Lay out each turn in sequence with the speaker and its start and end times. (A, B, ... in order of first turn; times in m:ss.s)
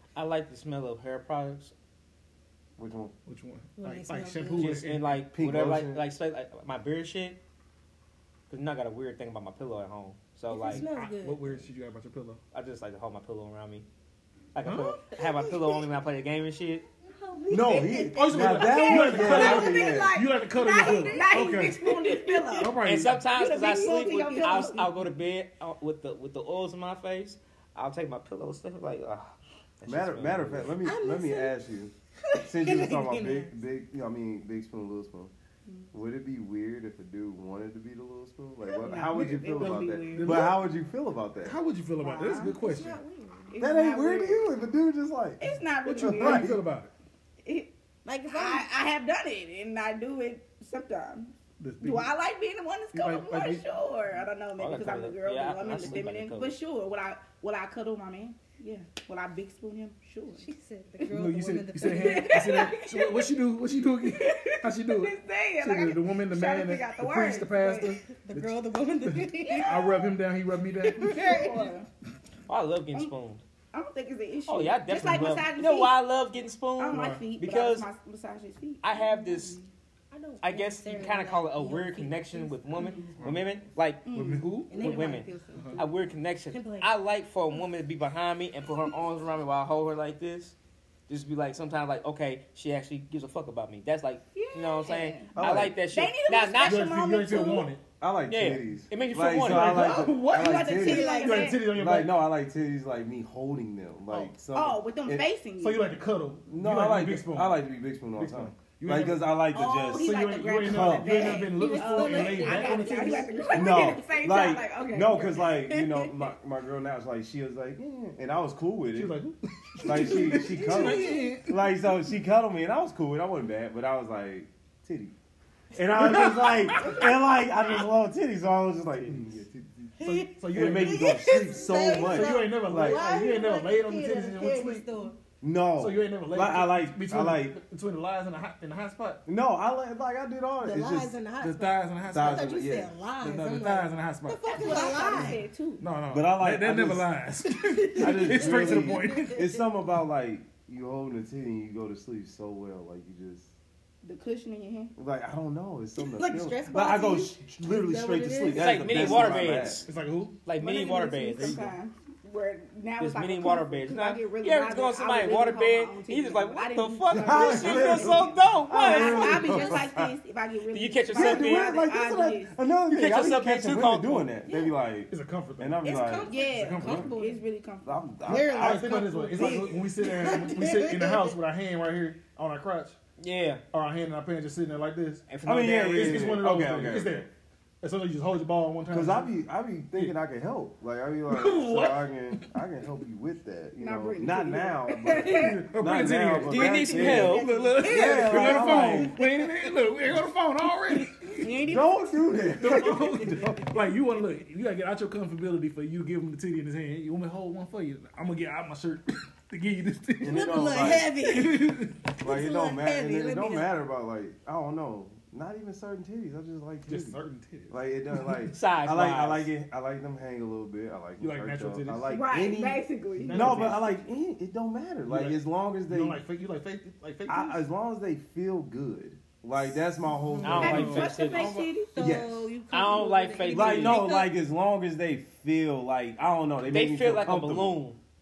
0:00.1-0:01.7 A
0:02.8-0:03.1 B
0:03.2-0:05.2 C
0:03.8-0:04.8 D
0:04.6-0:07.4 A
0:05.3-0:06.0 B
0:08.5-0:10.8 A
0:10.5-0:11.6 D
0:10.6-0:12.4 C
0:12.5-0:13.8 A
0:14.5-0:16.8 A
0:14.6-0:15.0 C
0:16.9-0:22.8 D
0:17.5-0:20.2 B
0:18.1-0:21.9 C
0:18.6-0:22.8 E
0:22.6-0:23.2 C
0:22.8-0:30.7 A
0:23.3-0:24.9 E
0:24.1-0:24.8 D
0:29.8-0:31.9 B
0:30.8-0:31.5 D
0:32.3-0:33.5 D
0:32.4-0:35.3 B
0:35.9-0:41.6 B
0:38.6-0:40.5 E
0:39.6-0:40.5 C
0:41.4-0:43.0 C
0:42.0-0:42.6 E
0:42.5-0:43.6 D
0:43.5-0:44.5 E
0:43.6-0:46.6 B
0:45.4-0:46.5 E
0:45.8-0:46.9 C
0:47.4-0:47.7 E
0:48.0-0:48.7 D
0:48.3-1:00.5 E
0:51.6-0:52.1 C
0:52.9-0:53.6 C
0:54.6-0:56.5 A
1:00.4-1:02.4 D
1:01.1-1:11.6 C
1:01.8-1:03.3 E
1:04.0-1:07.9 E
1:07.6-1:10.0 D
1:09.4-1:10.1 E
1:10.8-1:11.7 D
1:10.9-1:11.9 E
1:12.5-1:13.4 A
1:13.7-1:16.0 E
1:14.4-1:17.9 A
1:16.8-1:19.7 E
1:16.9-1:17.2 C
1:18.8-1:19.6 A
1:20.1-1:23.3 D
1:20.4-1:24.0 A
1:22.7-1:23.1 E
1:23.2-1:24.9 C
1:24.0-1:25.0 E
1:24.7-1:26.0 D
1:24.7-1:30.5 A
1:25.5-1:25.8 C
1:26.5-1:26.9 D
1:31.1-1:36.8 A
1:34.3-1:35.3 E
1:35.3-1:35.7 B
1:35.9-1:37.7 E
1:36.6-1:37.8 C
1:38.0-1:41.1 B
1:38.3-1:39.9 A
1:39.4-1:42.1 C
1:39.9-1:41.6 E
1:40.8-1:41.6 D
1:41.6-1:45.2 B
1:44.1-1:44.4 C
1:44.5-1:46.0 E
1:45.6-1:47.6 C
1:46.5-1:51.2 B
1:48.2-1:49.3 C
1:49.5-1:55.4 E
1:49.9-1:53.3 C
1:51.2-1:53.8 D
1:53.5-1:59.1 B
1:55.7-1:56.1 D
1:58.9-2:01.6 C
1:59.8-2:05.1 B
1:59.9-2:01.3 D
2:05.7-2:09.4 B
2:05.9-2:07.0 C
2:09.0-2:14.9 C
2:10.0-2:15.2 D
2:10.5-2:13.0 B
2:15.4-2:17.6 B
2:15.8-2:19.2 C
2:19.2-2:21.2 B
2:20.6-2:25.4 D
2:21.4-2:22.6 C
2:22.1-2:22.9 B
2:23.2-2:25.3 C
2:24.4-2:25.8 E
2:25.8-2:29.5 C
2:26.1-2:27.1 B
2:27.5-2:29.6 D
2:28.0-2:33.5 B
2:34.0-2:34.9 E
2:34.9-2:39.8 B
2:36.0-2:39.3 D
2:38.5-2:39.8 A
2:39.8-2:40.4 C
2:40.4-2:41.7 A
2:40.6-2:52.5 E
2:41.4-2:41.7 C
2:43.0-2:49.8 A
2:47.1-2:50.1 B
2:50.7-2:51.7 A
2:51.1-2:57.1 B
2:52.9-2:54.3 A
2:54.4-2:54.8 D
2:55.1-2:55.8 C
2:55.8-2:57.4 D
2:56.2-2:58.0 E
2:56.4-2:57.1 C
2:57.8-2:59.7 B
2:58.3-3:01.3 D
2:58.4-3:03.0 C
3:03.2-3:03.6 A
3:03.7-3:05.2 C
3:05.3-3:06.5 A
3:05.4-3:07.3 B
3:05.8-3:07.3 C
3:07.8-3:09.3 C
3:08.9-3:19.1 B
3:11.3-3:12.5 C
3:13.8-3:15.5 E
3:15.6-3:21.5 C
3:16.4-3:17.5 A
3:16.7-3:19.8 D
3:21.4-3:21.8 D
3:21.5-3:21.8 E
3:21.6-3:23.6 B
3:22.6-3:32.1 C
3:30.2-3:31.1 B
3:30.2-3:33.7 D
3:32.2-3:37.2 B
3:36.8-3:38.5 C
3:37.7-3:46.2 B
3:38.5-3:39.5 A
3:41.2-3:42.3 C
3:42.1-3:43.7 E
3:43.2-3:44.0 C
3:45.0-3:47.6 C
3:47.3-3:51.1 B
3:50.1-3:51.6 C
3:50.4-3:51.6 A
3:50.6-3:52.2 E
3:51.4-3:54.3 D
3:52.0-3:52.5 B
3:52.7-3:54.0 A
3:53.5-3:57.8 B
3:56.7-3:58.0 A